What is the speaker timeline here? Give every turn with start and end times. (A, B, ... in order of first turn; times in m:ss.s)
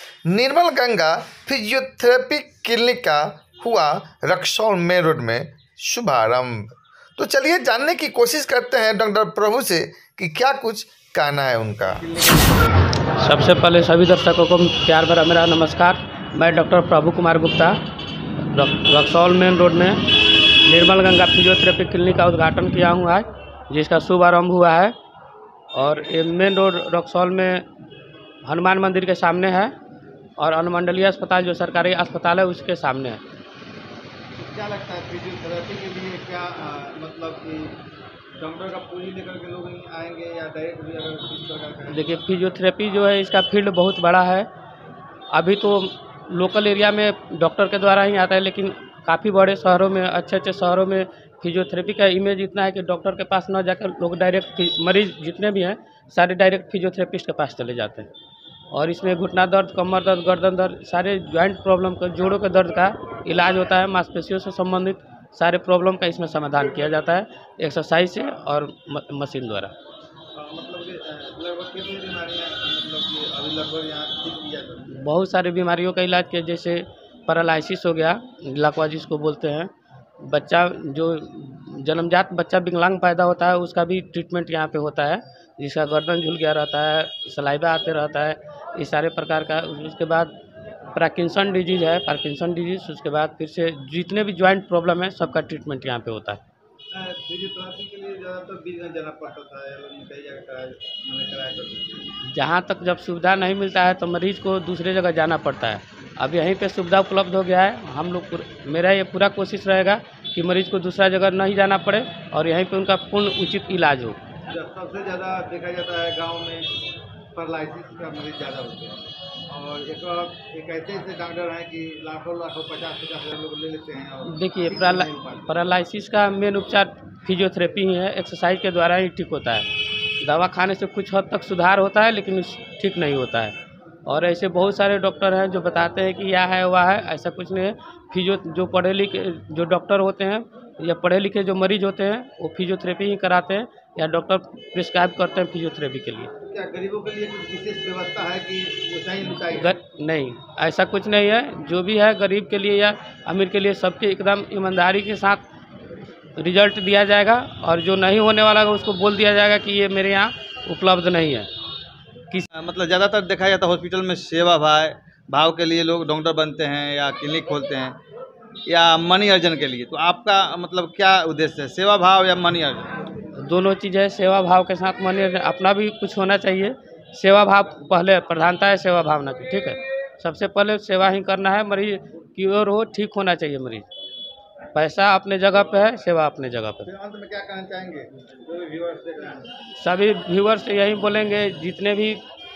0:00.2-0:12.0 A
0:11.9-0:13.2 B
0:13.2-0:17.8 C
0:18.5-0:20.0 C
0:20.6-0:24.9 C
0:25.7-0:27.6 C
0:28.4-0:29.7 C
0:30.4-0:33.2 C
0:34.4-0:37.8 B
0:38.4-0:42.2 B
0:41.9-0:44.5 C
0:45.3-0:58.1 C
0:58.7-1:09.7 C
1:10.3-1:15.0 B
1:14.9-1:19.7 C
1:20.2-1:30.3 C
1:30.9-1:36.4 C
1:36.9-1:42.0 B
1:42.3-1:54.2 C
1:54.5-1:56.7 B
1:57.3-2:05.5 B
2:04.2-2:09.7 C
2:10.2-2:26.3 C
2:26.4-2:29.8 B
2:29.3-2:35.4 C
2:36.4-2:41.5 C
2:42.5-2:48.0 B
2:48.7-2:53.0 B
2:53.4-3:03.9 C
3:04.7-3:06.9 C
3:06.8-3:09.5 B
3:09.8-3:12.2 C